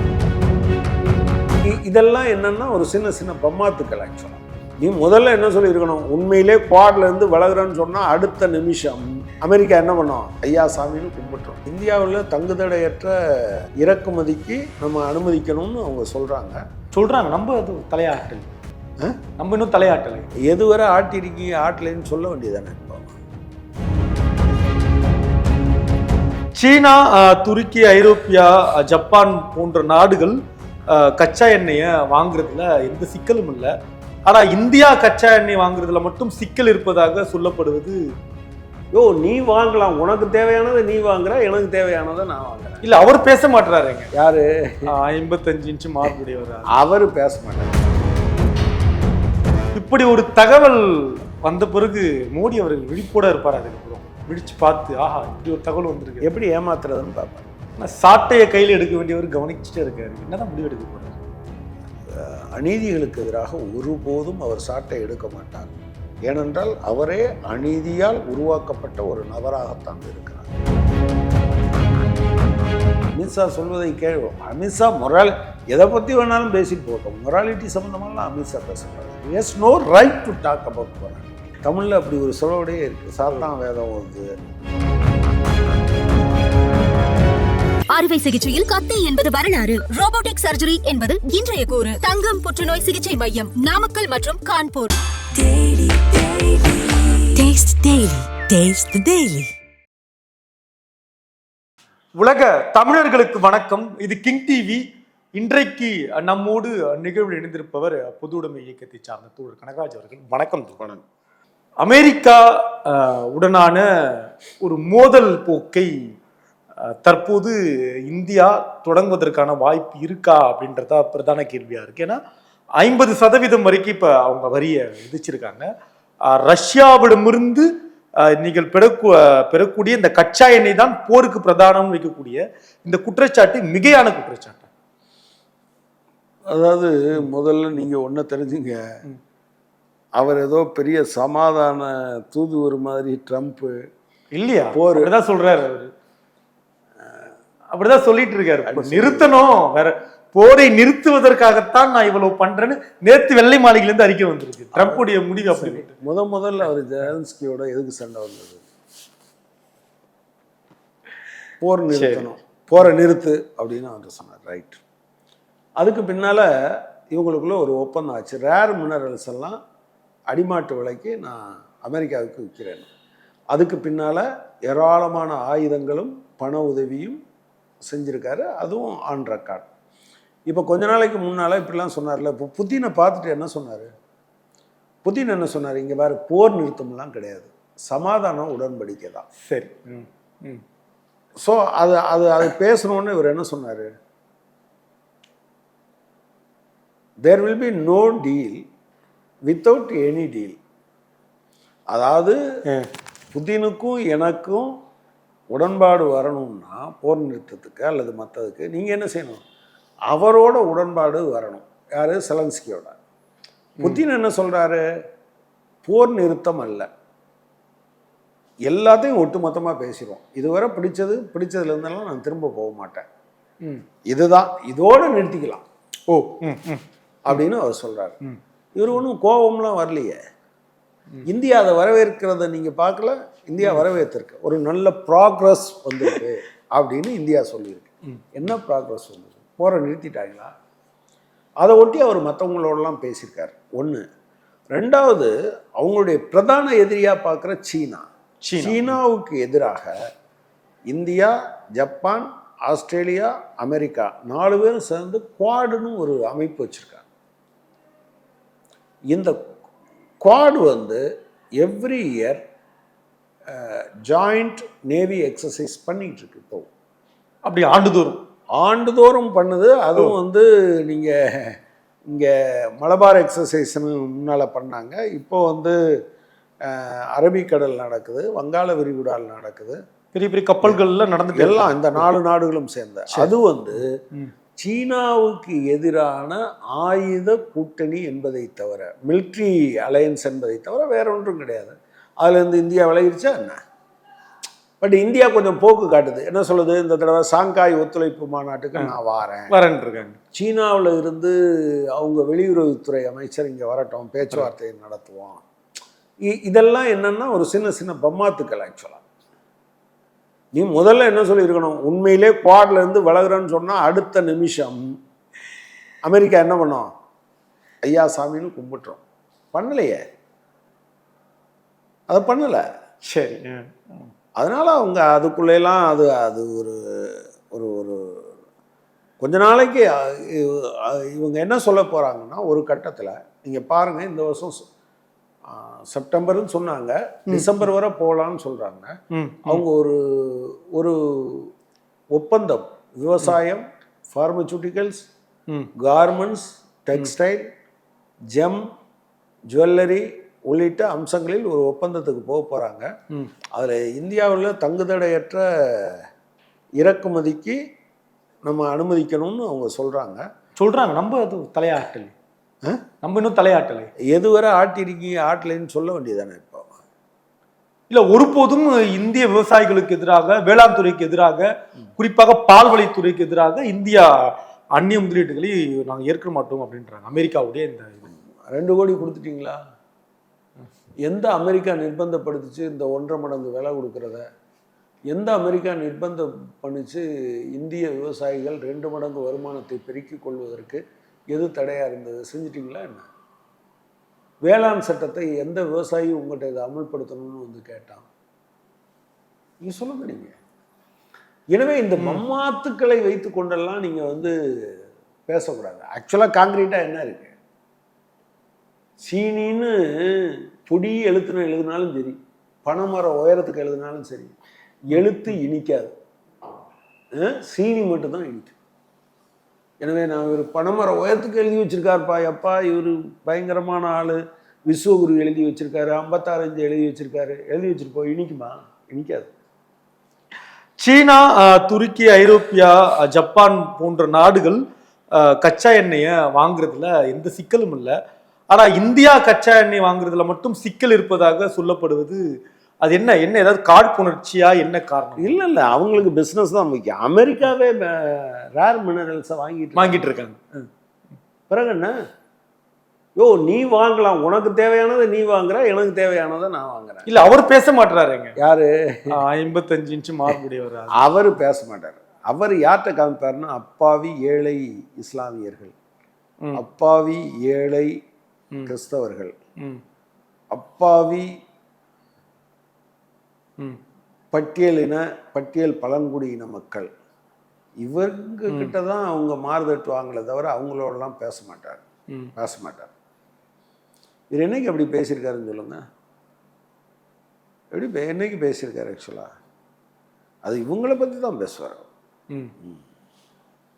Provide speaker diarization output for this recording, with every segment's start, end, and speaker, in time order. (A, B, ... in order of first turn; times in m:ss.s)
0:01.6-0:16.6 A
0:16.9-0:18.4 B
0:19.4-0:20.3 B
0:20.4-0:23.1 A
0:26.6-0:30.4 B
0:30.9-0:33.7 B
0:34.2-0:38.0 B
0:38.9-0:42.8 A
0:42.8-0:44.1 B
0:44.1-0:44.8 A
0:44.9-0:46.7 B
0:46.7-0:47.9 A
0:49.7-0:56.2 B
0:56.2-0:57.5 A
0:57.8-1:01.2 B
1:02.1-1:05.7 A
1:06.2-1:10.5 A
1:13.1-1:24.3 A
1:27.9-1:37.2 C
1:37.3-1:39.5 D
1:42.2-1:44.8 B
1:45.3-1:50.8 B
1:51.8-1:56.2 B
1:56.8-1:57.5 B
1:58.0-2:02.2 B
2:02.8-2:05.6 B
2:06.2-2:07.7 B
2:08.2-2:14.7 B
2:16.5-2:18.8 A
2:20.2-2:23.8 A
2:24.3-2:25.9 B
2:24.7-2:25.1 A
2:27.7-2:35.9 B
2:28.7-2:29.3 A
2:34.7-2:38.6 A
2:41.6-2:44.8 A
2:41.9-2:42.3 B
2:45.8-2:46.5 A
2:47.1-2:49.6 A
2:50.3-2:52.9 A
2:53.5-2:57.2 A
2:57.9-2:59.7 A
3:00.5-3:03.9 A
3:05.0-3:09.3 A
3:09.4-3:10.6 B
3:11.4-3:13.9 A
3:17.2-3:18.6 A
3:19.5-3:20.6 A
3:21.9-3:22.4 A
3:23.3-3:24.7 A
3:25.5-3:29.4 A
3:30.1-3:33.0 A
3:33.8-3:34.8 A
3:35.8-3:36.9 A
3:38.7-3:43.0 A
3:44.1-3:45.6 A
3:46.1-3:47.4 B
3:47.2-3:48.2 A
3:48.8-3:50.2 A
3:51.2-4:00.5 A
3:53.6-3:53.9 B
4:01.6-4:04.0 A
4:04.7-4:08.0 A
4:08.4-4:09.0 B
4:08.6-4:09.9 A
4:10.9-4:17.0 A
4:19.1-4:19.6 A
4:20.2-4:21.0 A
4:21.6-4:22.4 A
4:23.5-4:26.7 A
4:27.4-4:28.2 B
4:28.6-4:31.6 A
4:32.1-4:35.8 A
4:36.6-4:39.8 A
4:40.1-4:42.1 B
4:41.3-4:44.0 A
4:43.1-4:44.3 B
4:44.6-4:53.6 A
4:54.8-4:59.5 A
4:59.5-5:00.2 B
5:00.3-5:05.4 A
5:06.2-5:09.0 A
5:10.5-5:14.9 A
5:16.0-5:16.9 A
5:17.8-5:19.0 A
5:19.5-5:20.0 A
5:22.1-5:22.6 A
5:23.1-5:24.1 B
5:24.4-5:28.3 A
5:29.2-5:34.6 A
5:35.5-5:38.9 A
5:37.3-5:37.6 B
5:39.1-5:39.6 B
5:39.4-5:41.5 A
5:42.1-5:45.1 A
5:45.8-5:47.4 A
5:48.3-5:48.6 A
5:49.5-5:52.9 A
5:53.5-5:56.0 A
5:56.8-5:57.6 A
5:58.4-6:00.2 A
6:00.6-6:02.1 B
6:03.0-6:03.9 B
6:04.1-6:06.7 A
6:07.9-6:18.1 B
6:18.5-6:19.6 A
6:21.0-6:24.2 A
6:25.1-6:33.1 A
6:34.4-6:38.0 A
6:39.6-6:40.4 A
6:41.5-6:47.3 A
6:42.0-6:42.2 B
6:49.0-6:54.3 A
6:54.8-6:55.9 A
6:57.2-6:58.5 A
6:59.8-7:09.3 A
7:10.8-7:17.9 B
7:18.5-7:22.2 B
7:22.8-7:25.5 B
7:25.2-7:30.1 A
7:29.8-7:30.6 B
7:31.5-7:31.9 A
7:33.2-7:37.2 A
7:37.1-7:38.4 B
7:38.4-7:39.1 A
7:39.1-7:41.0 B
7:40.9-7:45.7 A
7:46.6-7:47.9 A
7:48.6-7:49.3 A
7:50.5-7:51.2 A
7:54.3-7:56.9 A
7:57.8-8:01.8 A
7:58.5-7:58.8 B
8:02.4-8:02.9 A
8:04.3-8:05.8 A
8:07.7-8:09.3 A
8:10.4-8:11.8 A